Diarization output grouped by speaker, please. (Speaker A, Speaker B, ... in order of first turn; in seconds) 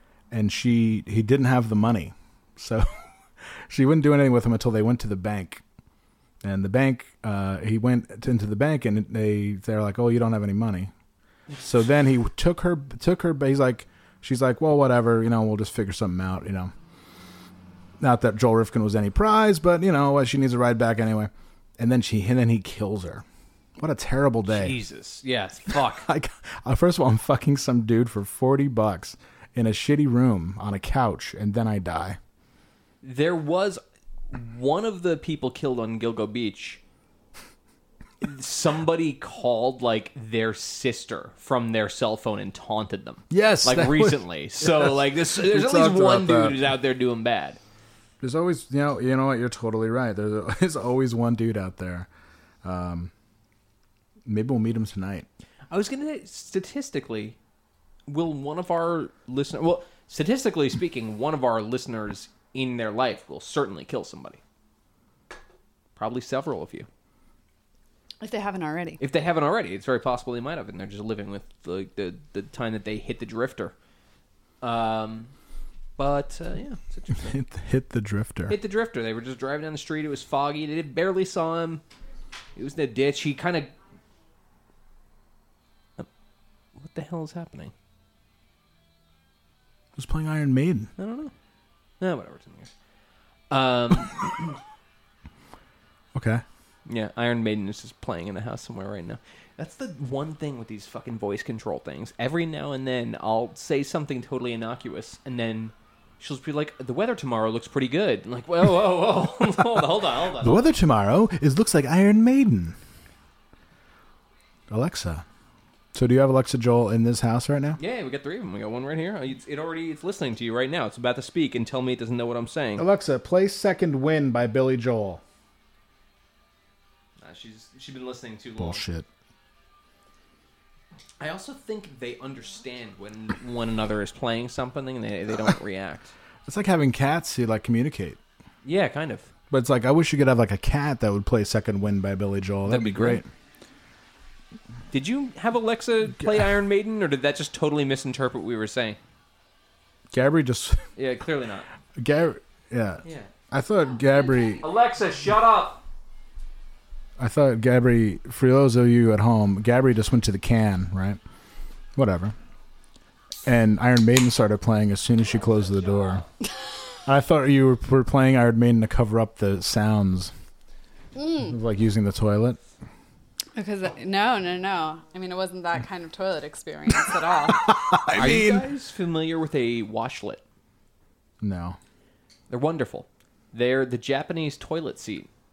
Speaker A: 0.3-2.9, 3.7-5.6, 6.4-10.9, 11.6-16.7, 18.0-23.2, 23.8-24.8, 25.7-32.2, 43.3-46.6, 48.2-52.1, 52.6-53.1, 54.3-55.3, 77.2-78.6, 90.0-90.9, 96.2-96.4, 110.4-112.8, 114.7-115.2, 115.9-117.8, 122.8-125.2, 128.6-129.1, 136.5-138.2, 139.5-143.3, 150.1-150.8, 152.0-154.6, 157.2-161.2, 162.0-162.3, 163.4-166.2, 167.1-170.3, 171.4-172.6, 177.5-178.7, 181.4-181.8
Speaker B: 24.5-26.1, 33.0-36.8, 38.2-47.6, 55.7-57.4, 58.1-64.4, 66.0-66.9, 69.0-73.7, 74.6-75.3, 76.0-77.4, 78.5-81.8, 82.6-83.7, 86.8-87.7, 91.0-91.3, 92.0-92.7, 93.5-94.6, 96.9-110.7, 117.8-122.9, 127.2-128.8, 131.2-136.1, 138.6-139.3, 142.7-143.2, 144.9-149.0, 151.0-151.7, 153.0-153.3, 154.6-155.8, 178.1-180.4, 182.5-185.3
Speaker C: 68.2-69.0, 171.2-171.4, 173.6-177.7